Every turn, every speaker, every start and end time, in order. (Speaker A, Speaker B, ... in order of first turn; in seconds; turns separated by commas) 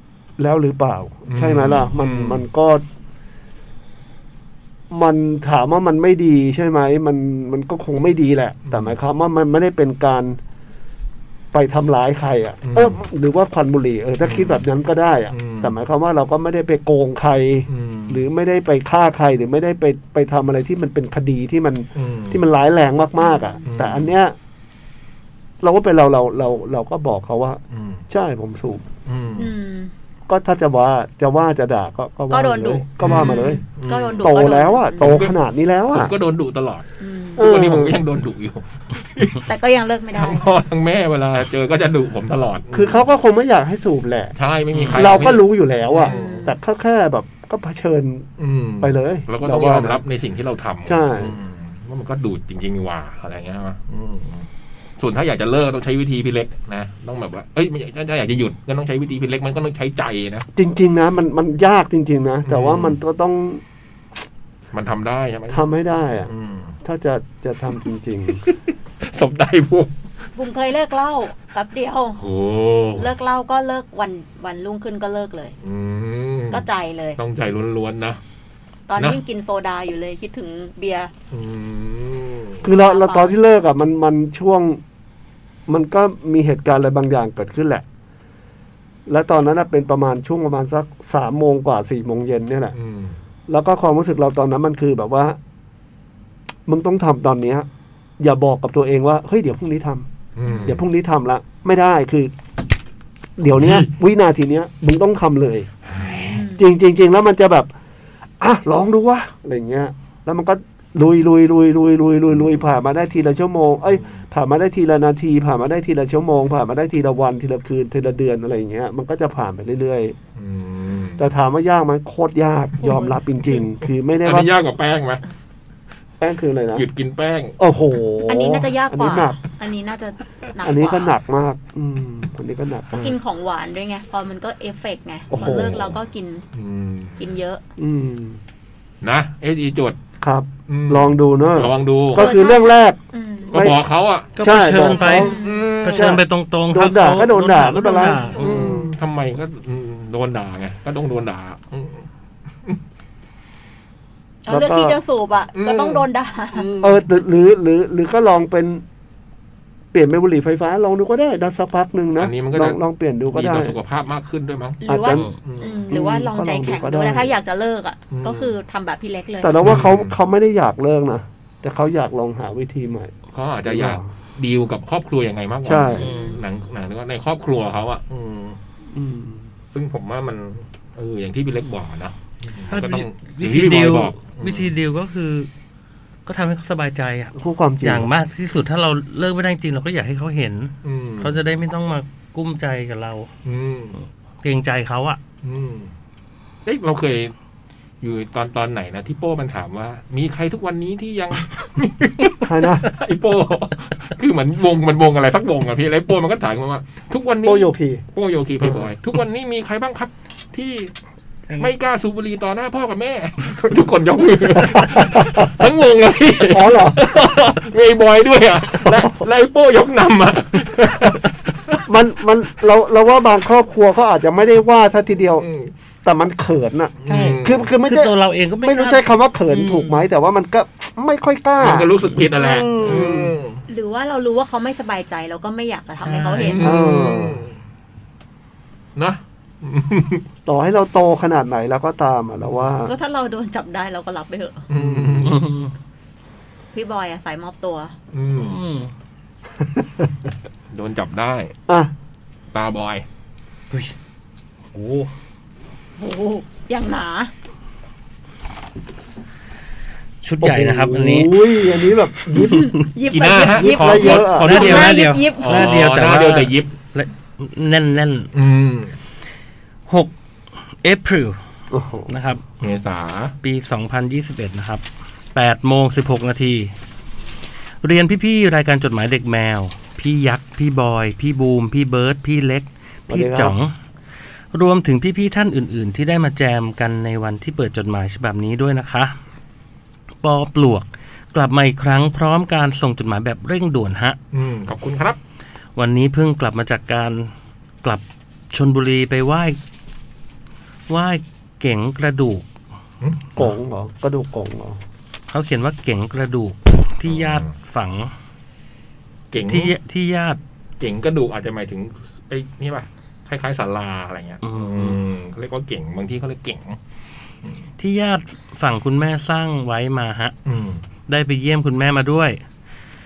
Speaker A: 0.4-2.8, Speaker B: 1.3-2.4, Speaker A: 4.9-10.4, Speaker B: 8.7-9.0, Speaker A: 11.5-24.4, Speaker B: 12.6-13.0, Speaker B: 14.2-14.7, Speaker B: 15.3-15.8, Speaker B: 17.7-18.2, Speaker B: 21.9-22.4, Speaker C: 23.2-23.6, Speaker B: 23.7-24.1, Speaker A: 25.6-28.9, Speaker B: 27.7-28.0, Speaker B: 29.1-29.5, Speaker C: 29.4-29.9, Speaker A: 30.3-33.6, Speaker C: 32.3-35.1, Speaker B: 33.0-34.4, Speaker A: 34.2-36.1, Speaker B: 35.0-35.3, Speaker B: 35.9-36.9, Speaker C: 37.0-37.5, Speaker A: 37.4-38.0, Speaker B: 37.4-39.5, Speaker C: 39.5-40.5, Speaker B: 40.2-43.1, Speaker A: 42.7-44.4, Speaker B: 44.4-46.4, Speaker A: 44.9-48.3, Speaker C: 46.0-46.5, Speaker B: 48.4-54.5, Speaker A: 48.8-50.0, Speaker A: 50.9-51.4, Speaker B: 55.0-60.5, Speaker A: 60.6-63.6, Speaker B: 62.5-63.0, Speaker B: 64.7-65.6, Speaker A: 65.5-66.3, Speaker B: 66.2-66.7, Speaker A: 66.8-68.4, Speaker B: 68.4-69.9, Speaker C: 70.4-72.2, Speaker B: 72.2-73.1, Speaker C: 73.0-75.5, Speaker B: 75.6-76.7, Speaker C: 76.5-77.2, Speaker B: 77.2-78.2, Speaker C: 78.9-81.1, Speaker B: 81.3-82.6, Speaker A: 82.6-84.8, Speaker C: 82.8-83.3, Speaker A: 85.7-87.8, Speaker A: 89.1-92.8, Speaker B: 92.7-93.2, Speaker A: 93.5-95.4, Speaker A: 96.7-97.7, Speaker A: 98.2-100.1, Speaker B: 100.4-100.8, Speaker C: 100.5-100.7, Speaker A: 100.6-102.3, Speaker A: 103.4-105.7, Speaker B: 103.5-103.9, Speaker B: 105.9-106.4, Speaker C: 106.2-106.7, Speaker A: 106.6-107.7, Speaker A: 108.4-120.2, Speaker B: 113.9-114.2, Speaker B: 120.4-121.3, Speaker A: 121.2-124.5, Speaker C: 122.8-123.6, Speaker B: 124.2-125.2, Speaker A: 126.2-126.9, Speaker B: 126.8-127.6, Speaker A: 127.6-129.4, Speaker C: 128.3-131.2, Speaker A: 130.6-133.2, Speaker C: 132.9-136.4, Speaker B: 135.3-135.8, Speaker A: 135.3-135.9, Speaker B: 136.5-137.2, Speaker C: 137.2-137.6, Speaker A: 137.8-138.4, Speaker B: 139.0-140.0, Speaker A: 140.2-143.0, Speaker B: 140.7-142.3, Speaker C: 142.2-143.6, Speaker A: 143.5-143.8, Speaker B: 143.5-144.4, Speaker D: 144.4-145.3, Speaker A: 144.4-148.9, Speaker C: 144.8-145.7, Speaker B: 145.1-146.2, Speaker D: 145.8-148.6, Speaker B: 148.3-152.1, Speaker C: 154.5-156.7, Speaker A: 154.5-155.0, Speaker B: 155.6-157.0, Speaker A: 156.8-158.8, Speaker A: 159.9-163.8, Speaker B: 162.2-162.8, Speaker B: 163.3-165.8, Speaker C: 164.8-169.6, Speaker A: 164.9-165.3, Speaker A: 165.9-167.3, Speaker B: 168.1-168.5, Speaker A: 169.4-173.1, Speaker B: 169.6-170.2, Speaker B: 173.3-178.6, Speaker A: 173.7-174.1, Speaker A: 175.6-176.1, Speaker C: 176.0-176.4, Speaker A: 178.9-179.5, Speaker B: 179.7-184.7, Speaker D: 182.7-185.5, Speaker D: 186.3-193.3, Speaker A: 187.3-188.1, Speaker B: 190.8-191.4, Speaker B: 193.4-194.0, Speaker D: 194.4-195.2, Speaker B: 195.4-195.9, Speaker B: 196.7-197.3, Speaker B: 198.0-210.9, Speaker A: 202.4-202.9, Speaker A: 207.4-208.0, Speaker B: 211.6-221.8, Speaker A: 214.6-215.5, Speaker A: 216.5-217.2, Speaker A: 218.8-219.1, Speaker A: 221.9-225.5, Speaker B: 225.4-225.7, Speaker A: 226.0-233.3, Speaker B: 227.0-227.7, Speaker D: 227.1-230.0, Speaker B: 231.6-233.6, Speaker C: 233.7-236.7, Speaker D: 236.0-236.7, Speaker B: 236.4-237.5, Speaker A: 236.6-237.4, Speaker B: 239.0-240.2, Speaker A: 240.5-242.9, Speaker C: 242.9-244.6, Speaker B: 244.7-245.4, Speaker A: 244.8-245.3, Speaker D: 244.8-245.7, Speaker C: 246.7-247.9, Speaker B: 248.1-248.6, Speaker D: 248.3-248.9, Speaker A: 249.6-250.1, Speaker B: 250.7-251.5, Speaker B: 252.5-253.1, Speaker D: 254.7-255.1, Speaker C: 256.0-257.3, Speaker D: 260.2-261.4, Speaker A: 260.4-262.8, Speaker C: 262.4-265.7, Speaker B: 263.1-266.7, Speaker A: 263.4-264.5, Speaker D: 264.4-268.3, Speaker B: 268.3-268.9, Speaker D: 269.9-270.1, Speaker D: 270.8-271.4, Speaker A: 271.7-272.1, Speaker D: 272.1-272.4, Speaker B: 272.6-273.4, Speaker D: 273.4-274.8, Speaker D: 275.3-276.7, Speaker D: 277.8-283.7, Speaker A: 283.1-283.6, Speaker D: 284.5-289.2, Speaker D: 290.2-294.2, Speaker B: 294.3-295.2, Speaker D: 295.8-297.3, Speaker D: 297.8-299.6, Speaker D: 300.9-302.5, Speaker A: 303.4-304.8, Speaker D: 305.3-308.1, Speaker B: 307.1-307.5, Speaker B: 309.3-309.7, Speaker D: 309.4-310.4, Speaker B: 310.8-316.8, Speaker D: 314.4-315.0, Speaker D: 317.8-320.3, Speaker B: 320.5-320.8, Speaker D: 321.1-322.4